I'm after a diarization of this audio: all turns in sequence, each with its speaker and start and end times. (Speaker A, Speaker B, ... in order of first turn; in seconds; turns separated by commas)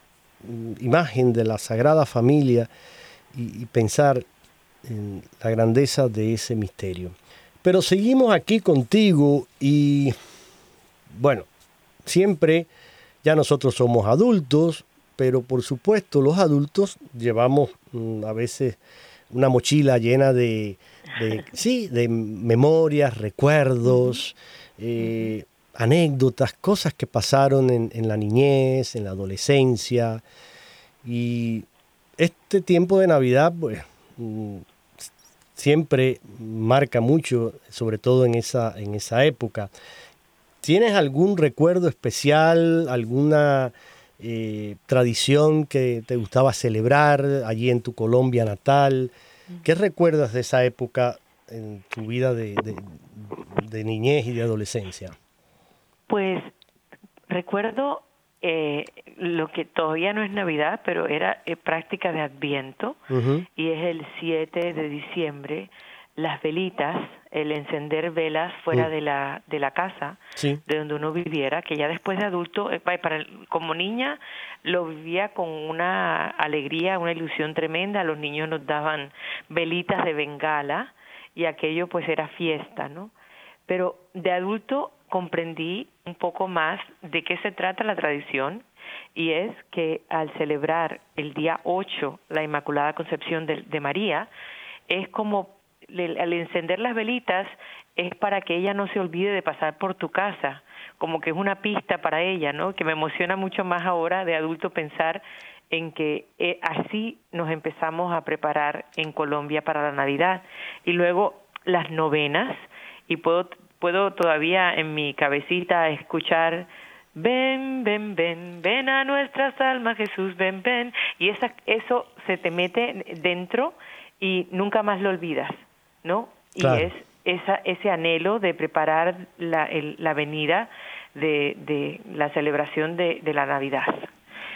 Speaker A: 0.4-2.7, Speaker A: 3.3-4.2, Speaker A: 4.8-10.1, Speaker A: 11.1-11.5, Speaker A: 12.0-12.7, Speaker A: 13.2-18.8, Speaker A: 19.3-30.2, Speaker A: 31.0-31.7, Speaker A: 32.2-39.7, Speaker A: 40.6-49.1, Speaker A: 49.6-55.1, Speaker B: 56.1-56.5, Speaker B: 57.3-63.0, Speaker A: 63.1-63.5, Speaker B: 63.6-83.1, Speaker A: 70.3-70.6, Speaker B: 83.7-88.6, Speaker B: 89.1-94.3, Speaker B: 94.9-134.1, Speaker A: 126.6-126.9